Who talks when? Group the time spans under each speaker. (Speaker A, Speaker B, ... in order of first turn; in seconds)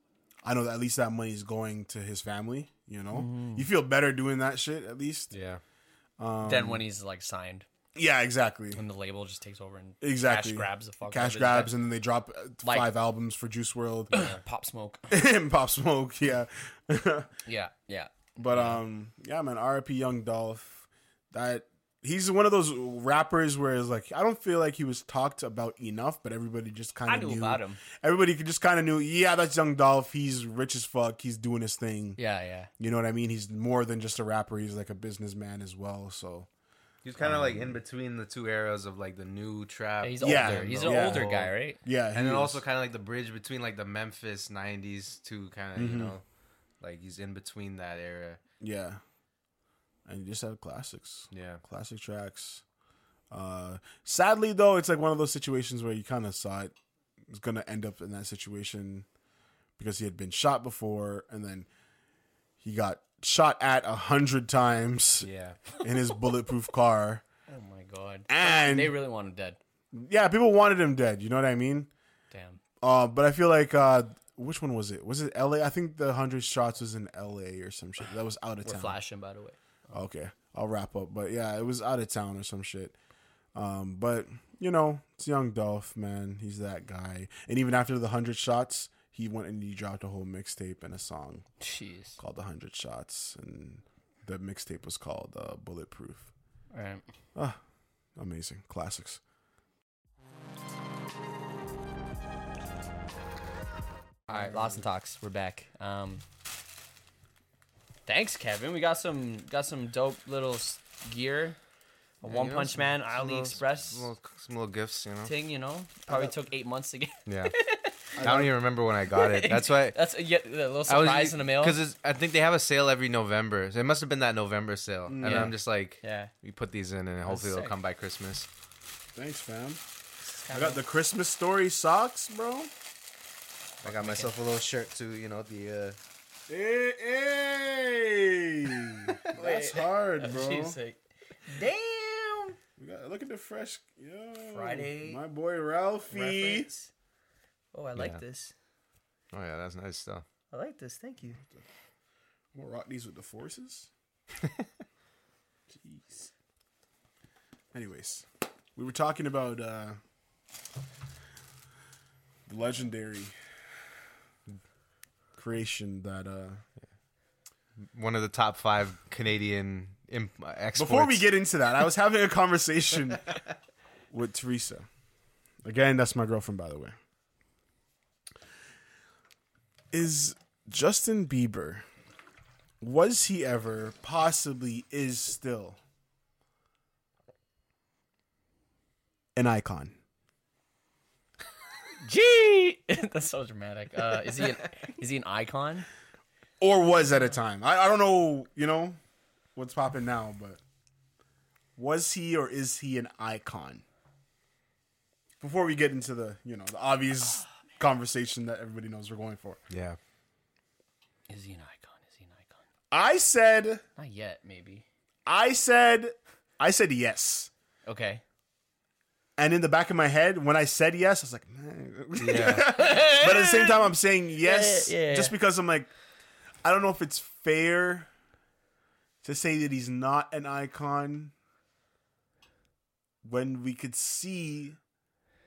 Speaker A: 0.4-5.3, 6.2-6.8, 7.9-8.8, 10.0-14.3, 15.1-17.3, 18.4-32.2, 32.8-36.5, 37.2-37.8, 40.2-42.6, 45.7-46.1, 48.6-49.0, 50.0-52.6, 53.3-56.7, 57.3-59.0, 59.8-61.7, 62.6-65.3, 65.8-67.2, 68.3-69.0, 69.9-71.9, 72.8-79.0, 79.9-82.9, 83.5-91.5, 92.2-96.3, 98.2-99.2, 116.1-116.3, 118.2-118.5, 125.1-125.5, 129.1-129.8, 130.5-132.7, 136.5-140.8, 142.8-146.7, 152.5-153.9, 157.7-160.0, 162.5-163.3, 165.3-166.6, 170.8-173.3, 174.1-174.9, 175.6-177.0, 179.9-181.8, 182.8-185.8, 189.3-190.0, 196.6-199.0, 199.6-200.6, 201.8-203.8, 205.4-209.6, 212.9-213.8, 215.2-217.5, 219.4-225.9, 226.6-228.1, 229.2-231.3, 233.2-234.8
Speaker B: 3.1-3.7, 6.4-7.7, 8.7-11.7, 12.6-12.9, 14.1-15.1, 17.4-18.8, 27.1-27.8, 32.2-32.7, 40.0-41.8, 67.5-69.6, 72.3-72.6, 78.6-79.6, 91.6-92.2, 96.7-97.0, 104.3-106.2, 108.1-111.6, 112.2-114.1, 115.2-118.2, 119.1-121.8, 125.2-126.3, 127.2-127.7, 130.2-130.8, 133.8-134.3, 139.2-142.6, 144.5-145.2, 146.1-146.9, 147.7-148.5, 150.5-151.4, 155.9-156.3, 192.0-195.9, 211.3-212.6, 214.0-214.8, 217.8-218.2, 222.3-223.9, 224.4-225.3
Speaker C: 5.3-5.6, 37.0-41.5, 42.1-46.2, 46.8-48.4, 51.3-51.6, 65.2-65.6, 112.2-115.3, 117.3-117.5, 118.2-120.0, 120.9-128.5, 133.8-136.0, 149.3-150.2, 167.9-171.2, 209.7-210.0, 222.2-222.8